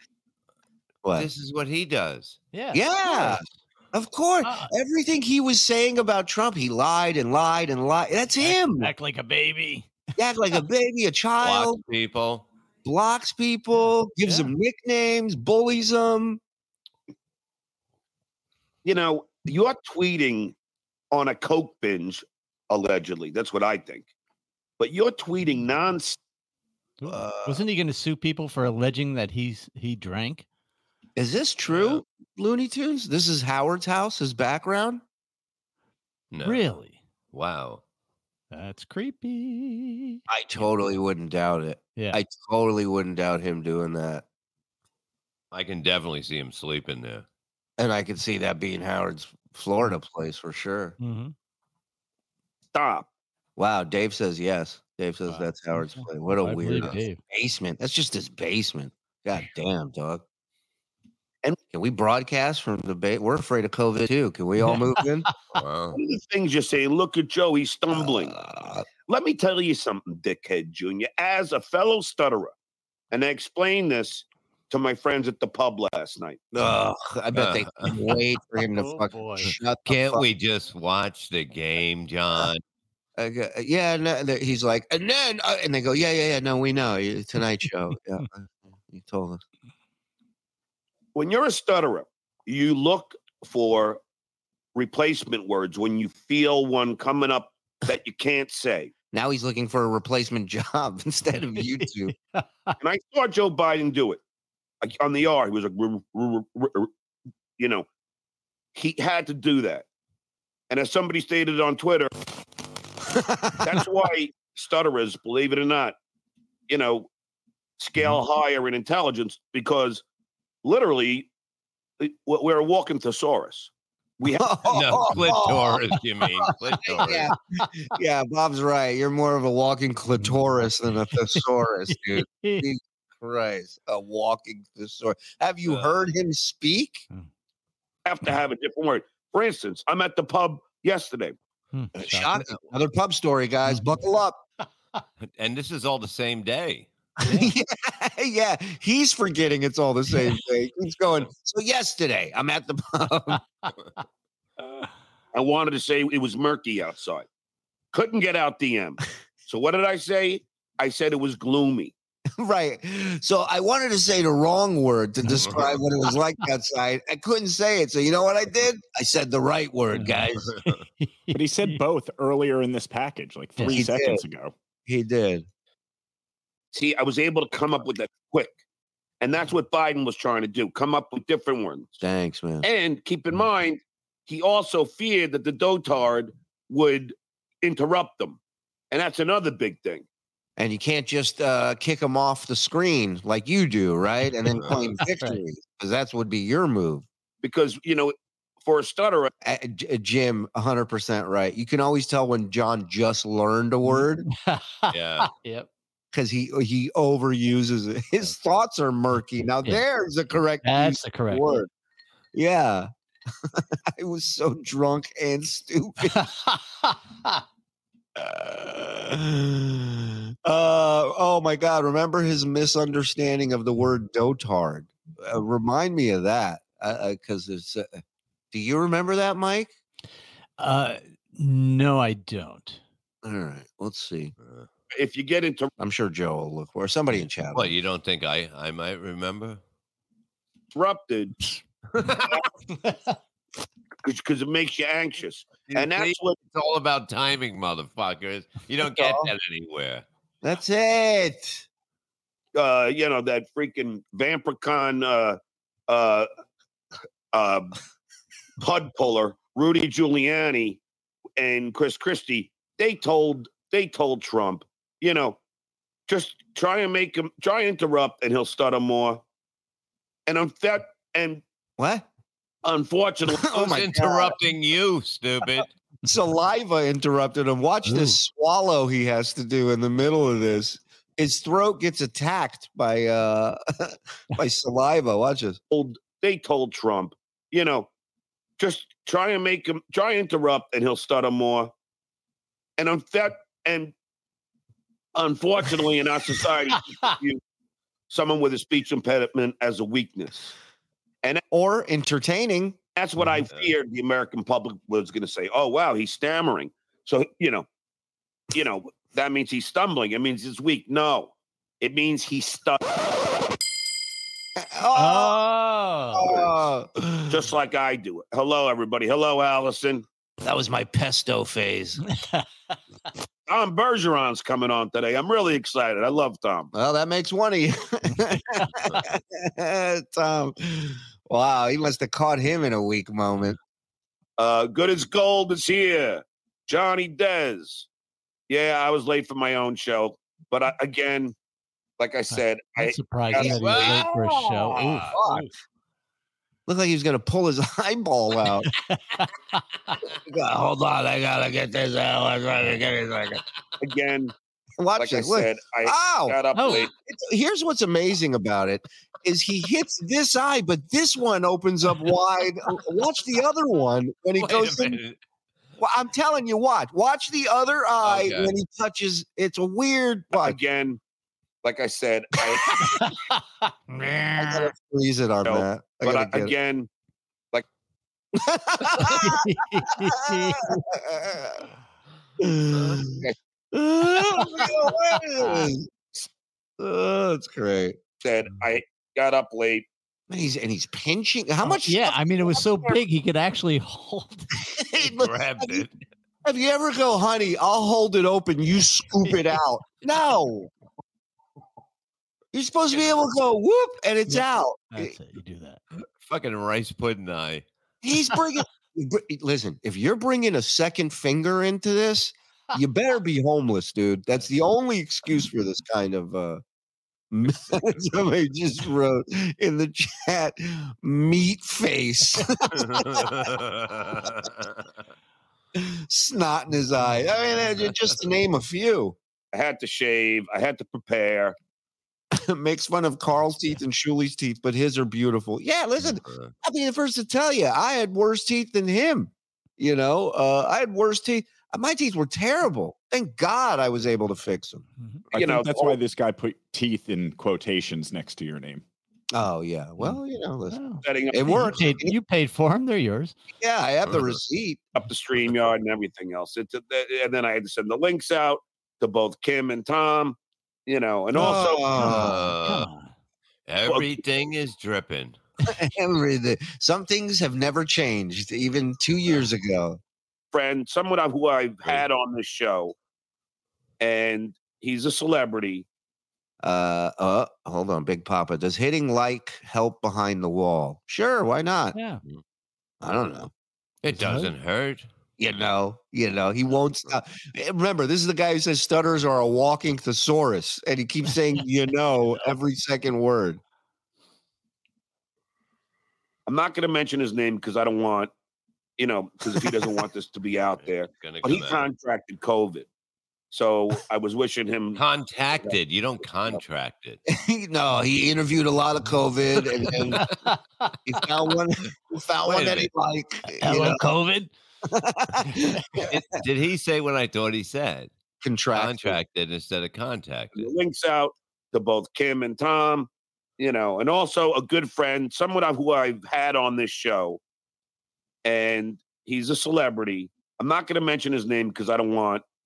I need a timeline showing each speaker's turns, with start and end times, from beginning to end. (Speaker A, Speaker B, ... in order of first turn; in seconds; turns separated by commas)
Speaker A: 1.0-1.3, Speaker B: 1.2-2.4, Speaker C: 2.5-3.4, Speaker A: 2.7-3.4, Speaker A: 3.9-8.9, Speaker C: 4.4-4.7, Speaker C: 8.4-9.9, Speaker A: 10.2-11.8, Speaker B: 11.4-12.5, Speaker A: 12.8-16.4, Speaker C: 14.2-14.5, Speaker D: 18.9-20.6, Speaker D: 21.1-24.1, Speaker D: 24.8-26.2, Speaker C: 27.0-30.5, Speaker A: 27.1-27.6, Speaker A: 31.2-35.0, Speaker B: 31.7-32.0, Speaker B: 36.3-36.6, Speaker C: 36.4-37.0, Speaker B: 37.3-37.8, Speaker C: 38.5-40.7, Speaker A: 40.3-44.2, Speaker B: 45.5-47.2, Speaker A: 47.8-51.0, Speaker C: 51.0-51.3, Speaker D: 52.7-53.1, Speaker A: 53.6-60.2, Speaker C: 55.3-57.2, Speaker A: 61.7-65.3, Speaker C: 64.6-65.6, Speaker B: 65.5-66.0, Speaker D: 65.9-68.3, Speaker A: 67.9-68.9, Speaker D: 69.1-72.5, Speaker D: 73.1-76.4, Speaker A: 76.5-80.2, Speaker B: 77.3-78.0, Speaker C: 78.8-79.5, Speaker B: 79.9-82.6, Speaker A: 83.2-89.4, Speaker D: 91.2-94.0, Speaker D: 94.8-98.9, Speaker A: 99.1-102.1, Speaker C: 101.6-102.8, Speaker D: 102.8-104.2, Speaker D: 104.8-106.9, Speaker D: 107.6-107.9, Speaker D: 108.8-109.9, Speaker D: 110.7-112.1, Speaker A: 113.1-113.8, Speaker D: 113.6-116.0, Speaker D: 116.7-117.1, Speaker D: 117.8-120.0, Speaker D: 120.6-121.3, Speaker D: 122.0-124.5, Speaker A: 124.3-125.8, Speaker B: 124.7-127.3, Speaker A: 126.8-137.1, Speaker C: 130.2-132.7, Speaker B: 135.7-136.0, Speaker D: 138.1-141.3, Speaker C: 141.7-142.3, Speaker A: 141.9-144.4, Speaker C: 143.7-143.9, Speaker B: 145.2-146.9, Speaker A: 147.2-153.4, Speaker C: 147.2-147.5, Speaker D: 155.3-157.3, Speaker D: 157.9-161.9, Speaker A: 162.4-170.5, Speaker B: 165.4-165.8, Speaker C: 169.9-171.8, Speaker B: 170.4-170.8, Speaker E: 171.3-174.5, Speaker A: 173.7-174.2, Speaker A: 174.8-175.5, Speaker D: 176.7-178.6, Speaker D: 179.2-181.9, Speaker A: 182.0-182.7, Speaker D: 182.6-188.4, Speaker D: 188.9-190.1, Speaker A: 190.6-197.1, Speaker C: 195.0-195.4, Speaker D: 197.4-199.3, Speaker A: 199.4-204.3, Speaker C: 203.9-205.7, Speaker B: 204.9-205.3, Speaker A: 206.1-211.7, Speaker C: 210.6-211.6, Speaker A: 212.3-212.9, Speaker A: 213.4-216.3, Speaker C: 216.1-217.4, Speaker A: 218.2-229.7, Speaker C: 230.6-232.8, Speaker A: 233.2-234.3, Speaker B: 234.4-234.7, Speaker D: 234.9-235.7, Speaker A: 235.8-237.8, Speaker B: 237.5-239.6, Speaker D: 240.7-241.4, Speaker B: 242.0-242.4, Speaker C: 242.8-243.2, Speaker D: 244.0-246.4, Speaker B: 245.7-250.0, Speaker A: 248.9-249.3, Speaker A: 250.4-251.7, Speaker D: 252.6-256.3, Speaker D: 257.3-257.7, Speaker D: 258.6-260.8, Speaker D: 261.4-265.4, Speaker D: 266.1-269.2, Speaker D: 270.3-271.4, Speaker A: 271.8-272.1, Speaker D: 272.6-273.6, Speaker A: 273.2-274.4, Speaker B: 273.5-275.7, Speaker A: 276.0-285.6, Speaker D: 285.7-287.9, Speaker D: 288.6-291.7, Speaker D: 292.8-293.9, Speaker D: 295.1-297.4, Speaker D: 298.1-300.5, Speaker A: 301.5-302.8, Speaker D: 303.0-307.7, Speaker D: 308.5-312.8, Speaker A: 314.6-315.4, Speaker C: 314.9-316.5, Speaker A: 316.1-317.4, Speaker D: 317.3-320.1, Speaker A: 320.4-322.0, Speaker C: 322.1-322.4, Speaker D: 323.5-326.7, Speaker A: 326.7-333.6, Speaker D: 334.4-337.9, Speaker D: 338.5-341.4, Speaker D: 342.0-344.1, Speaker C: 342.3-345.5, Speaker A: 343.4-345.5, Speaker A: 346.7-348.7, Speaker C: 348.6-349.6, Speaker A: 350.3-353.4, Speaker D: 353.8-354.3, Speaker A: 354.8-365.0, Speaker D: 355.0-356.9, Speaker C: 356.6-356.9, Speaker B: 364.4-365.2, Speaker A: 365.8-370.6, Speaker B: 368.0-368.6, Speaker D: 370.4-371.0, Speaker D: 371.6-373.1, Speaker C: 372.8-374.7, Speaker A: 374.4-376.5, Speaker D: 375.4-376.9, Speaker A: 378.4-379.4, Speaker C: 379.1-380.8, Speaker A: 379.9-381.6, Speaker A: 382.4-385.9, Speaker B: 382.7-383.0, Speaker C: 384.4-385.7, Speaker A: 386.8-388.0, Speaker D: 388.2-389.9, Speaker A: 390.3-393.0, Speaker C: 391.6-394.6, Speaker A: 394.6-395.8, Speaker B: 395.1-395.9, Speaker A: 396.4-400.7, Speaker A: 402.5-405.1, Speaker C: 404.3-405.8, Speaker B: 406.2-407.6, Speaker A: 408.0-416.6, Speaker A: 417.3-423.5, Speaker B: 422.8-424.8, Speaker A: 425.8-429.2, Speaker D: 429.5-431.6, Speaker A: 432.3-444.8, Speaker B: 436.0-436.5, Speaker E: 445.3-448.8, Speaker D: 445.3-446.0, Speaker A: 449.3-452.2, Speaker C: 450.7-453.4, Speaker D: 451.0-451.6, Speaker A: 453.6-454.8, Speaker B: 454.1-454.3, Speaker D: 454.9-461.9, Speaker A: 461.3-462.5, Speaker C: 462.0-463.1, Speaker B: 462.0-462.9, Speaker B: 463.7-465.4, Speaker D: 463.9-464.1, Speaker A: 465.6-470.0, Speaker D: 470.5-472.9, Speaker D: 474.0-475.9, Speaker A: 476.6-481.9, Speaker C: 481.9-482.2, Speaker A: 483.0-483.5, Speaker B: 484.0-485.1, Speaker C: 484.1-484.5, Speaker A: 485.4-493.6, Speaker D: 496.5-498.3, Speaker D: 499.0-502.9, Speaker B: 500.8-501.9, Speaker D: 503.5-505.0, Speaker B: 504.9-507.2, Speaker A: 507.3-510.2, Speaker B: 509.9-510.4, Speaker C: 510.2-510.9, Speaker A: 511.1-514.0, Speaker B: 512.4-512.9, Speaker C: 513.6-514.5, Speaker A: 514.9-516.1, Speaker B: 516.0-518.1, Speaker A: 518.4-519.2, Speaker B: 518.7-520.7, Speaker D: 520.6-527.4, Speaker D: 528.5-532.4